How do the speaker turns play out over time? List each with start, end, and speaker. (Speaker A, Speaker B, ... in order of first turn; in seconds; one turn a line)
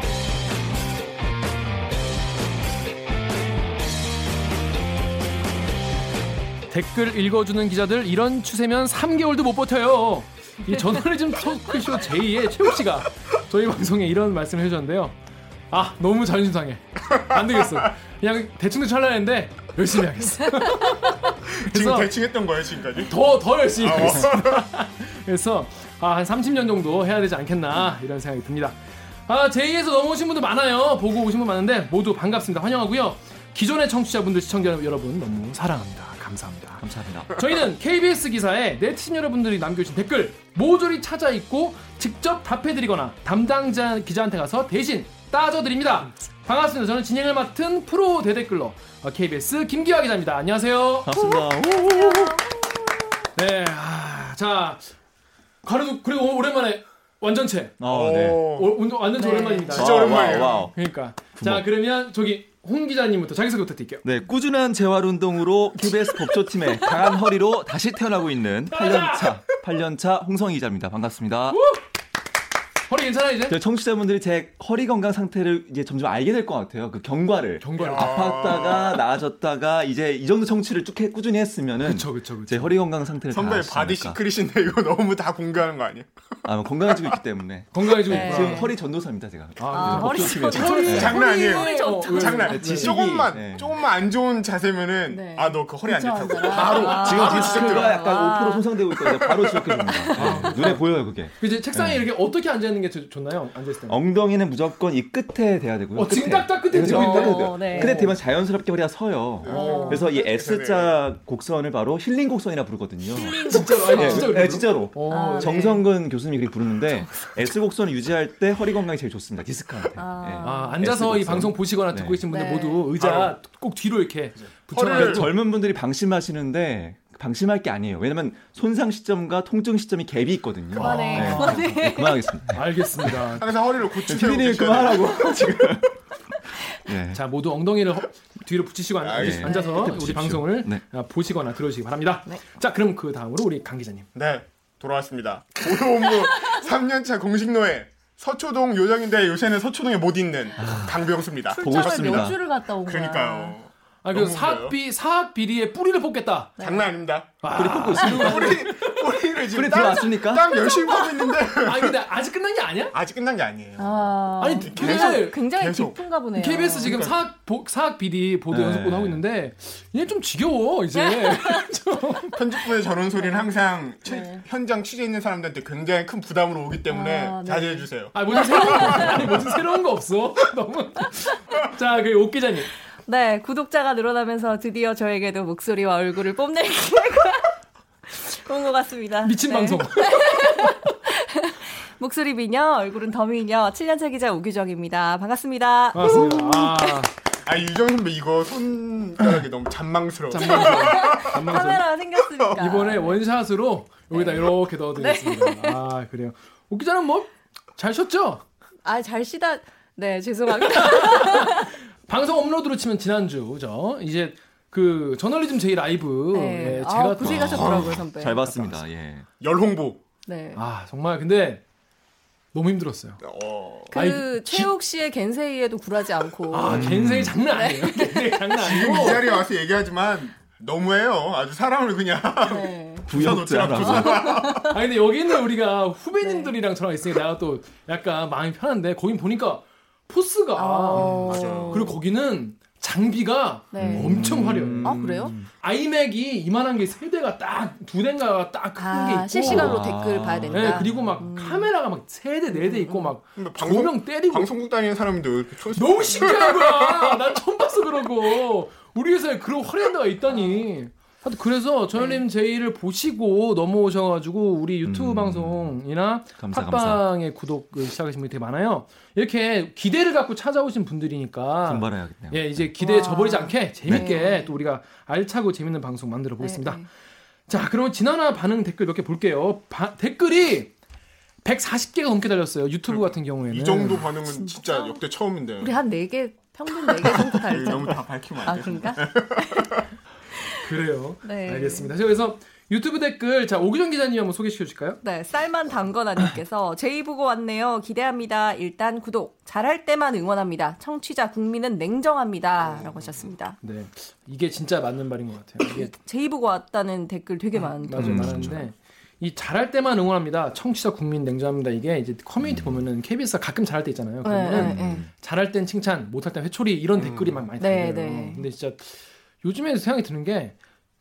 Speaker A: 6.7-15.2
Speaker A: 15.7-22.1
Speaker B: 21.7-23.2
Speaker A: 23.0-51.2
Speaker B: 23.8-24.6
Speaker C: 36.8-37.3
Speaker C: 51.0-52.5
Speaker D: 51.3-52.6
Speaker A: 53.4-54.9
Speaker A: 55.6-57.8
Speaker C: 57.8-58.5
Speaker B: 57.8-58.8
Speaker A: 58.3-64.0
Speaker D: 59.1-59.8
Speaker B: 59.7-60.7
Speaker C: 59.7-60.7
Speaker C: 61.4-61.7
Speaker C: 64.0-71.6
Speaker A: 68.7-69.3
Speaker A: 71.5-71.8
Speaker A: 72.9-73.6
Speaker C: 73.5-84.2
Speaker A: 77.6-78.6
Speaker B: 77.8-79.0
Speaker A: 81.8-82.8
Speaker B: 83.3-86.1
Speaker C: 86.4-91.2
Speaker A: 87.7-88.7
Speaker D: 88.1-88.7
Speaker A: 89.6-93.3
Speaker D: 89.7-93.0
Speaker B: 90.2-98.1
Speaker C: 92.5-93.8
Speaker D: 95.1-99.0
Speaker A: 96.5-97.4
Speaker C: 96.9-102.1
Speaker B: 99.0-100.1
Speaker A: 100.1-104.0
Speaker C: 103.9-122.2
Speaker A: 105.9-108.2
Speaker D: 106.7-108.0
Speaker B: 109.4-111.0
Speaker D: 109.5-110.1
Speaker A: 109.5-110.1
Speaker A: 113.2-115.8
Speaker D: 113.2-114.2
Speaker D: 115.1-115.8
Speaker D: 119.9-120.8
Speaker A: 120.4-125.3
Speaker D: 122.3-122.9
Speaker B: 123.0-123.3
Speaker B: 124.4-125.3
Speaker C: 124.9-133.3
Speaker D: 130.8-132.2
Speaker A: 130.8-131.7
Speaker A: 132.5-133.5
Speaker B: 133.4-135.4
Speaker C: 133.9-135.9
Speaker C: 136.7-137.2
Speaker A: 137.1-144.1
Speaker B: 139.0-139.6
Speaker C: 139.1-140.8
Speaker D: 139.4-139.8
Speaker B: 144.1-154.8
Speaker C: 150.6-152.4
Speaker D: 151.5-153.6
Speaker A: 154.0-156.6
Speaker D: 156.6-156.9
Speaker B: 156.6-157.3
Speaker A: 157.4-158.8
Speaker C: 157.5-158.8
Speaker B: 157.9-161.9
Speaker C: 159.5-160.6
Speaker D: 160.5-161.2
Speaker A: 161.6-162.9
Speaker B: 162.9-166.0
Speaker D: 163.8-167.0
Speaker A: 164.4-165.5
Speaker A: 166.3-172.3
Speaker B: 166.8-167.2
Speaker C: 168.5-169.2
Speaker D: 170.9-171.7
Speaker B: 172.3-179.4
Speaker D: 173.2-173.4
Speaker D: 174.0-174.4
Speaker D: 176.9-179.2
Speaker A: 178.1-182.7
Speaker D: 183.1-187.5
Speaker D: 188.1-197.0
Speaker A: 189.2-190.8
Speaker A: 195.9-197.1
Speaker B: 197.4-201.5
Speaker A: 200.3-201.9
Speaker D: 200.4-203.2
Speaker A: 202.5-208.4
Speaker D: 204.1-205.8
Speaker D: 208.8-211.7
Speaker A: 210.6-217.9
Speaker D: 216.3-218.6
Speaker C: 217.2-219.3
Speaker B: 219.4-220.0
Speaker D: 220.2-220.6
Speaker A: 220.5-221.6
Speaker A: 222.5-223.2
Speaker B: 223.2-223.9
Speaker D: 223.9-226.9
Speaker A: 223.9-224.7
Speaker A: 226.5-229.2
Speaker C: 226.7-227.4
Speaker D: 227.4-229.4
Speaker B: 228.6-234.8
Speaker D: 232.4-233.1
Speaker C: 233.1-234.4
Speaker D: 233.8-234.7
Speaker A: 234.6-249.9
Speaker D: 236.2-236.5
Speaker D: 240.6-241.9
Speaker B: 241.0-242.0
Speaker D: 243.7-245.3
Speaker C: 243.8-245.5
Speaker D: 248.8-251.7
Speaker C: 249.4-251.2
Speaker A: 250.5-254.5
Speaker D: 252.5-253.2
Speaker B: 253.3-257.1
Speaker A: 255.7-276.9
Speaker D: 261.9-262.2
Speaker C: 264.8-265.8
Speaker C: 266.4-267.1
Speaker C: 271.6-272.7
Speaker D: 272.8-274.6
Speaker C: 273.9-274.1
Speaker D: 276.4-276.9
Speaker A: 277.5-280.7
Speaker A: 281.4-284.1
Speaker B: 282.9-285.7
Speaker D: 284.2-285.0
Speaker D: 285.6-289.7
Speaker B: 287.0-289.8
Speaker A: 290.6-295.0
Speaker D: 291.2-291.9
Speaker D: 295.0-303.6
Speaker B: 302.6-303.3
Speaker A: 303.6-305.9
Speaker D: 305.6-308.6
Speaker A: 307.6-320.6
Speaker C: 308.0-308.6
Speaker C: 312.4-312.8
Speaker D: 314.2-315.0
Speaker C: 314.5-315.1
Speaker B: 317.0-317.4
Speaker D: 317.6-318.4